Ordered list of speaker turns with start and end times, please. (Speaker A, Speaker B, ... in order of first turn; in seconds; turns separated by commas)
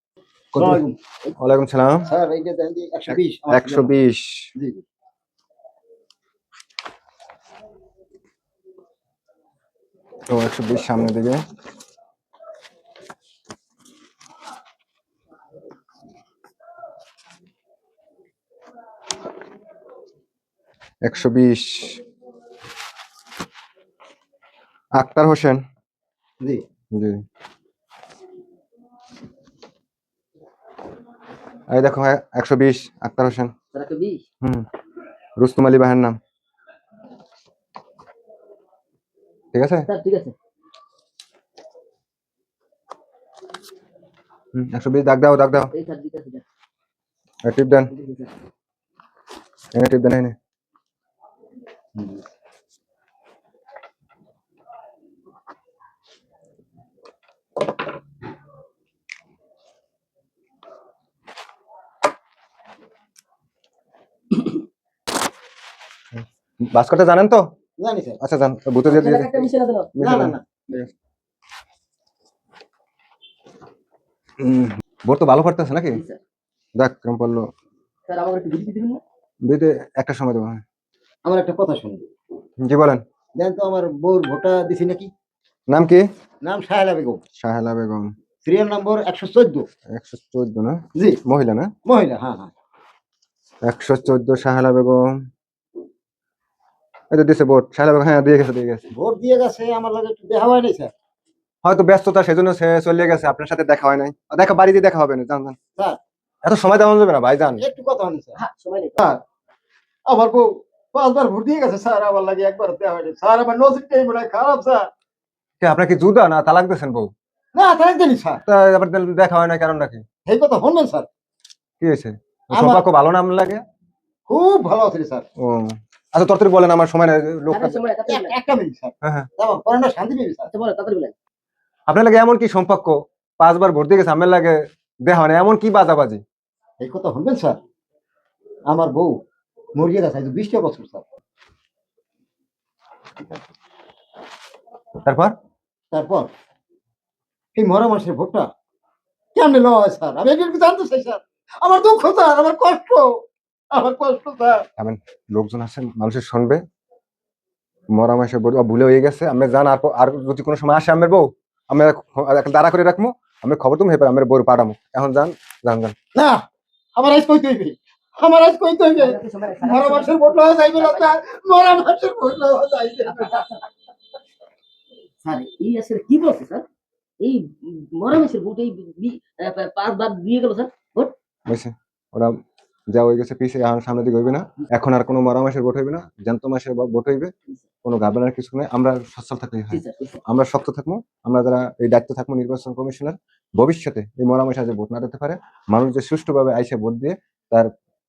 Speaker A: 0.5-0.8, Speaker B: 0.6-0.9, Speaker A: 1.4-2.1, Speaker B: 2.1-3.9, Speaker A: 3.1-4.5, Speaker B: 4.5-4.8, Speaker A: 10.3-11.4, Speaker A: 21.0-22.0, Speaker A: 25.0-25.6, Speaker A: 26.9-27.2, Speaker A: 31.7-33.5, Speaker C: 33.7-34.2, Speaker A: 35.4-36.2, Speaker A: 39.5-39.9, Speaker C: 39.9-40.3, Speaker A: 44.5-45.7, Speaker C: 45.7-46.4, Speaker A: 47.4-47.9, Speaker C: 47.9-48.3, Speaker A: 49.7-50.3, Speaker A: 66.2-67.4, Speaker B: 67.8-68.2, Speaker A: 68.2-69.5, Speaker C: 68.8-70.0, Speaker B: 70.0-70.5, Speaker A: 70.0-70.9, Speaker A: 74.4-76.0, Speaker C: 75.9-76.2, Speaker A: 76.8-77.5, Speaker C: 78.1-79.0, Speaker A: 79.4-80.6, Speaker B: 81.2-82.1, Speaker A: 82.6-83.0, Speaker B: 83.3-85.1, Speaker A: 85.7-86.0, Speaker B: 86.4-87.2, Speaker A: 87.4-88.1, Speaker B: 88.4-89.7, Speaker A: 89.9-91.7, Speaker B: 91.8-92.5, Speaker A: 93.6-95.2, Speaker A: 97.1-98.9, Speaker B: 98.9-100.9, Speaker A: 101.6-105.6, Speaker A: 106.4-107.6, Speaker B: 107.6-108.4, Speaker C: 108.4-109.0, Speaker B: 110.1-114.9, Speaker A: 115.6-117.1, Speaker B: 117.5-118.4, Speaker A: 118.5-120.0, Speaker B: 120.2-121.1, Speaker A: 121.8-123.6, Speaker B: 122.5-122.8, Speaker B: 124.3-125.2, Speaker A: 125.4-127.8, Speaker C: 127.5-128.3, Speaker B: 128.1-130.5, Speaker A: 129.0-129.3, Speaker C: 130.5-131.1, Speaker A: 131.9-136.2, Speaker B: 136.8-137.6, Speaker B: 138.7-139.1, Speaker B: 139.8-141.0, Speaker A: 145.0-145.3, Speaker B: 145.9-146.3, Speaker B: 147.6-148.5, Speaker B: 149.3-153.1, Speaker B: 153.7-154.7, Speaker A: 154.8-156.6, Speaker A: 157.9-165.9, Speaker B: 166.1-166.4, Speaker B: 166.9-173.4, Speaker C: 169.0-171.1, Speaker C: 173.1-173.6, Speaker C: 175.2-176.6, Speaker C: 177.2-181.1, Speaker A: 181.5-182.4, Speaker A: 182.9-187.3, Speaker A: 187.8-197.7, Speaker C: 189.7-190.2